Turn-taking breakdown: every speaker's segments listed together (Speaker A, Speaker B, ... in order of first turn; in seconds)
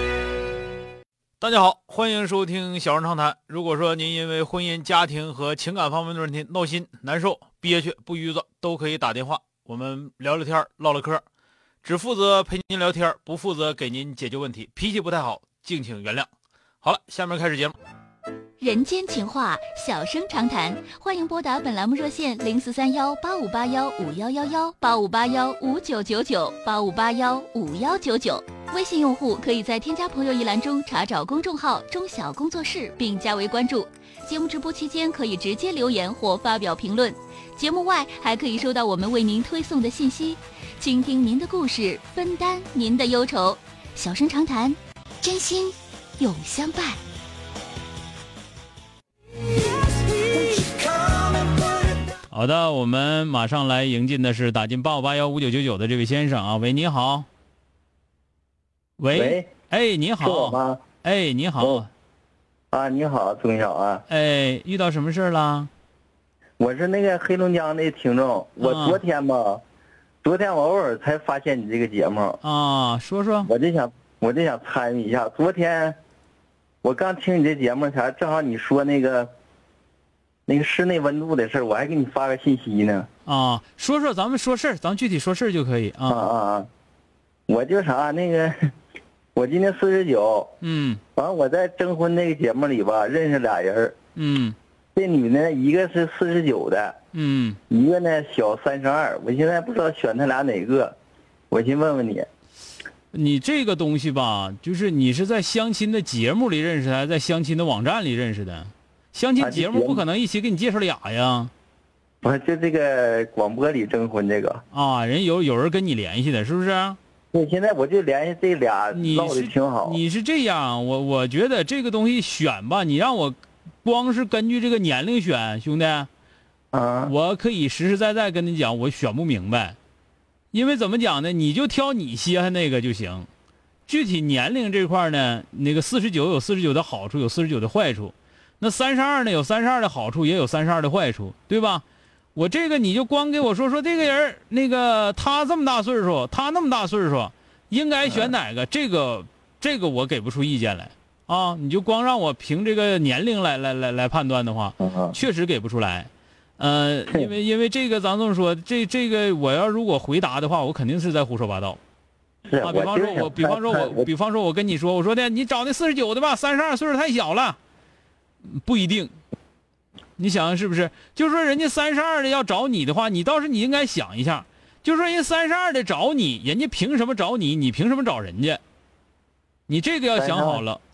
Speaker A: 1.4-11.2, 11.8-16.3, 16.8-17.7, 52.3-57.2, 59.0-61.9, 64.1-65.7, 68.6-69.0, 72.4-73.5, 83.2-86.3, 90.6-91.0, 94.2-94.5, 97.1-97.6, 103.1-111.5, 114.7-117.0, 118.9-126.1, 127.0-129.8, 130.5-133.3, 133.9-141.8, 142.3-161.8, 162.6-167.6, 168.4-169.2, 170.2-178.6, 179.7-180.8
Speaker B: 18.6-47.0
Speaker C: 59.1-59.5, 60.2-60.8, 62.7-64.0, 66.6-69.6, 70.2-72.4, 73.4-76.0, 76.8-79.3, 80.5-83.1, 86.1-86.7, 87.5-88.7, 89.3-90.5, 91.2-94.0, 95.0-97.0, 97.7-100.9, 101.5-102.3, 109.4-110.0, 112.2-114.6, 117.3-120.0, 126.7-127.1, 148.0-148.3, 154.8-155.2, 162.5-164.1, 180.1-180.6